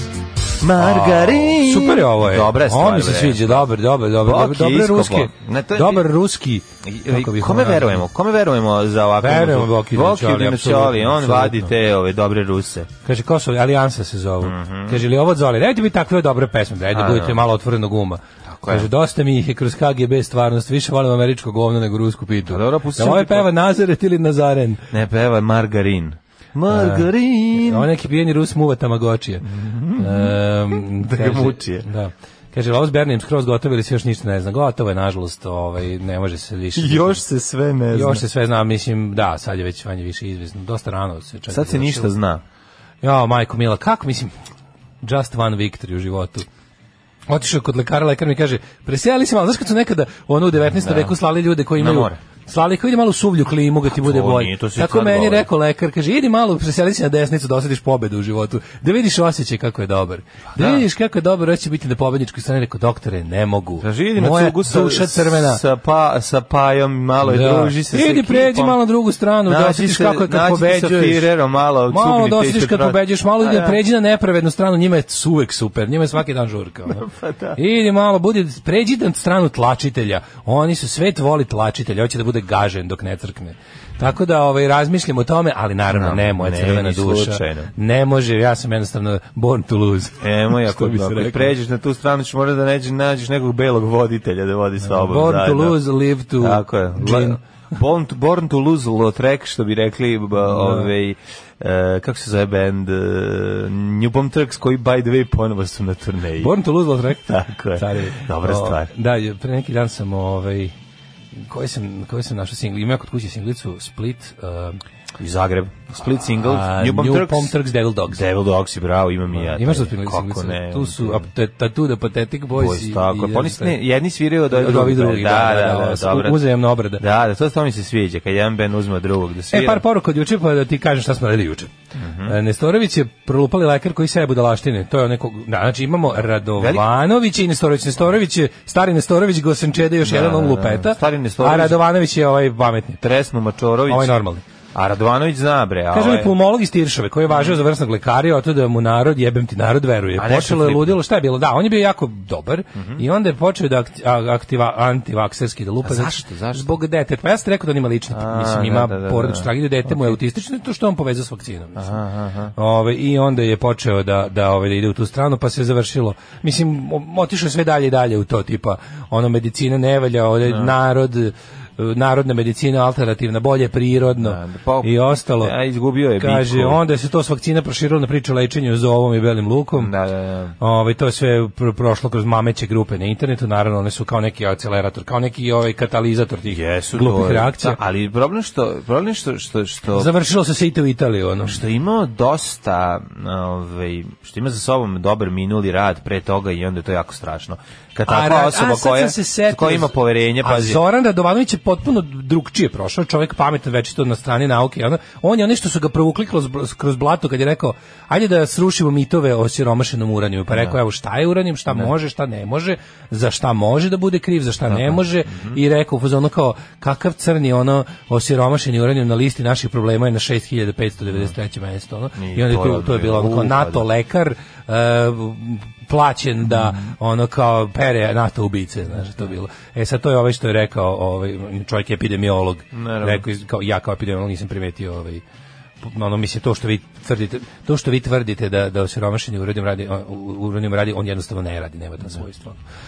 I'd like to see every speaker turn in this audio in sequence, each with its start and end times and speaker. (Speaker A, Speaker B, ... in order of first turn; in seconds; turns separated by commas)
Speaker A: 0.6-3.7, Speaker B: 0.8-8.0, Speaker A: 4.2-6.1, Speaker A: 6.8-12.9, Speaker B: 9.2-11.7, Speaker B: 13.0-24.8, Speaker A: 14.4-15.0, Speaker A: 16.9-17.4, Speaker A: 18.5-18.9, Speaker A: 22.4-23.5, Speaker A: 24.9-27.9, Speaker B: 26.7-37.2, Speaker A: 29.5-31.9, Speaker A: 36.7-38.2, Speaker B: 37.9-42.1, Speaker A: 41.5-42.4, Speaker B: 43.0-44.3, Speaker B: 45.0-46.5, Speaker B: 47.3-65.6, Speaker A: 50.8-51.1, Speaker A: 51.7-52.2, Speaker A: 53.9-55.5, Speaker A: 60.5-60.9, Speaker A: 63.8-68.8, Speaker B: 67.2-71.3, Speaker A: 69.4-73.8, Speaker B: 71.9-91.5, Speaker A: 76.9-77.6, Speaker A: 85.9-87.7, Speaker A: 90.2-95.8, Speaker B: 94.8-97.4, Speaker A: 96.4-106.5, Speaker B: 100.4-100.9, Speaker B: 106.4-110.7, Speaker A: 107.1-108.9, Speaker B: 111.3-114.8, Speaker A: 115.2-117.5, Speaker B: 116.4-118.2, Speaker A: 118.1-121.3, Speaker B: 119.3-123.8, Speaker A: 122.5-129.8, Speaker B: 124.5-127.0, Speaker B: 129.5-131.7, Speaker A: 131.9-132.3, Speaker B: 132.2-143.0, Speaker A: 136.6-136.8, Speaker A: 140.0-141.8, Speaker A: 143.0-144.2, Speaker B: 143.9-144.4, Speaker A: 144.7-146.3, Speaker B: 145.9-162.0, Speaker A: 147.3-147.6, Speaker A: 150.2-151.0, Speaker A: 152.7-153.0, Speaker A: 155.8-156.8, Speaker A: 158.1-160.2, Speaker A: 161.8-162.5, Speaker B: 162.5-175.5, Speaker A: 170.4-170.7, Speaker A: 174.2-176.8, Speaker B: 176.2-179.9, Speaker A: 179.8-180.6, Speaker B: 180.6-187.8, Speaker A: 186.5-190.1, Speaker B: 189.9-191.6, Speaker A: 191.4-200.8, Speaker B: 198.1-235.2, Speaker A: 214.7-215.6, Speaker A: 222.2-223.8, Speaker A: 226.5-226.8, Speaker A: 232.7-233.2, Speaker B: 235.8-242.6